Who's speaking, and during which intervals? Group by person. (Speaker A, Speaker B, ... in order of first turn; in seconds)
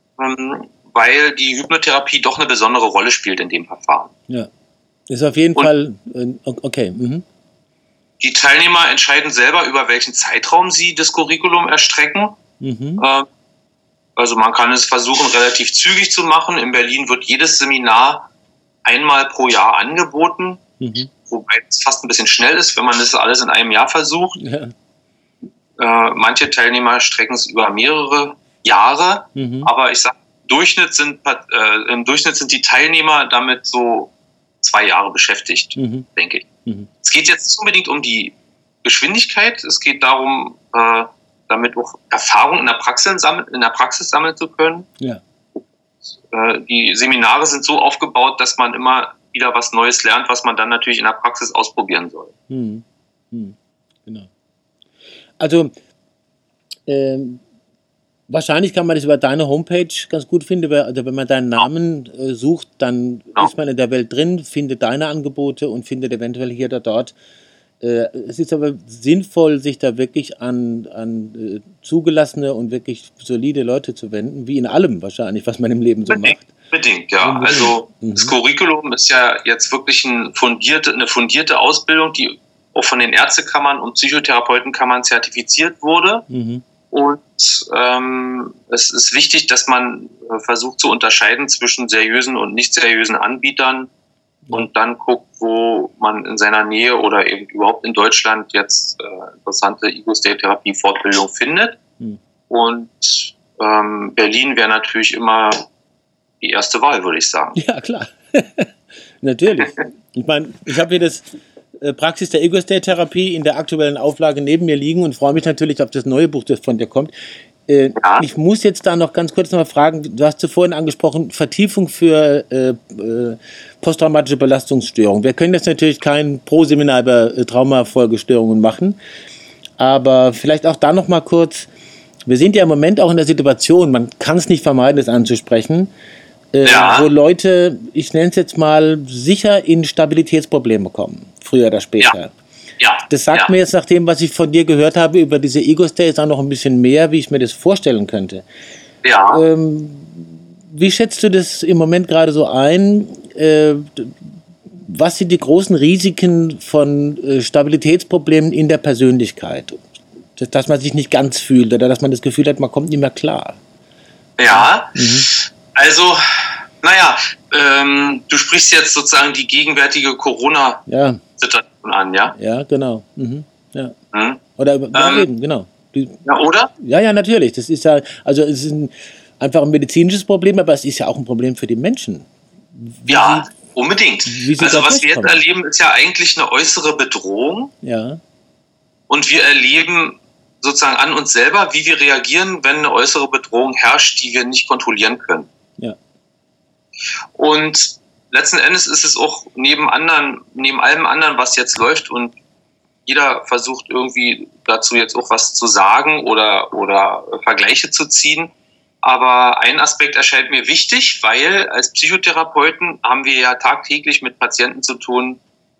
Speaker A: 0.2-4.1, 8.2-12.4, 13.0-13.3, 14.2-18.3, 18.9-20.6, 21.3-24.4, 25.8-36.5, 37.0-44.9, 46.2-52.3, 76.1-86.3, 86.9-93.9, 94.5-101.8, 102.5-105.7, 106.4-107.6, 118.0-118.2, 136.7-137.1, 142.8-143.5, 149.0-149.4, 164.4-166.2, 166.8-170.8, 171.4-172.3, 174.1-174.4, 174.9-175.3, 176.2-176.7, 183.1-187.7, 189.1-195.5, 197.3-202.4, 203.1-208.5, 209.0-215.4
Speaker B: 5.1-7.2, 12.6-13.1, 20.8-21.1, 24.4-24.7, 29.4-29.7, 35.8-36.1, 52.5-54.3, 55.4-55.7, 56.9-57.4, 58.3-67.2, 67.8-76.5, 77.2-78.4, 86.3-86.6, 107.5-111.3, 111.8-117.1, 117.7-129.0, 129.8-131.7, 132.3-135.9, 136.5-142.3, 143.1-148.4, 149.3-154.2, 154.7-159.8, 160.4-163.6, 164.5-165.3, 170.9-171.2, 172.3-173.9, 174.6-176.2, 176.8-183.5, 184.3-185.4, 187.8-188.2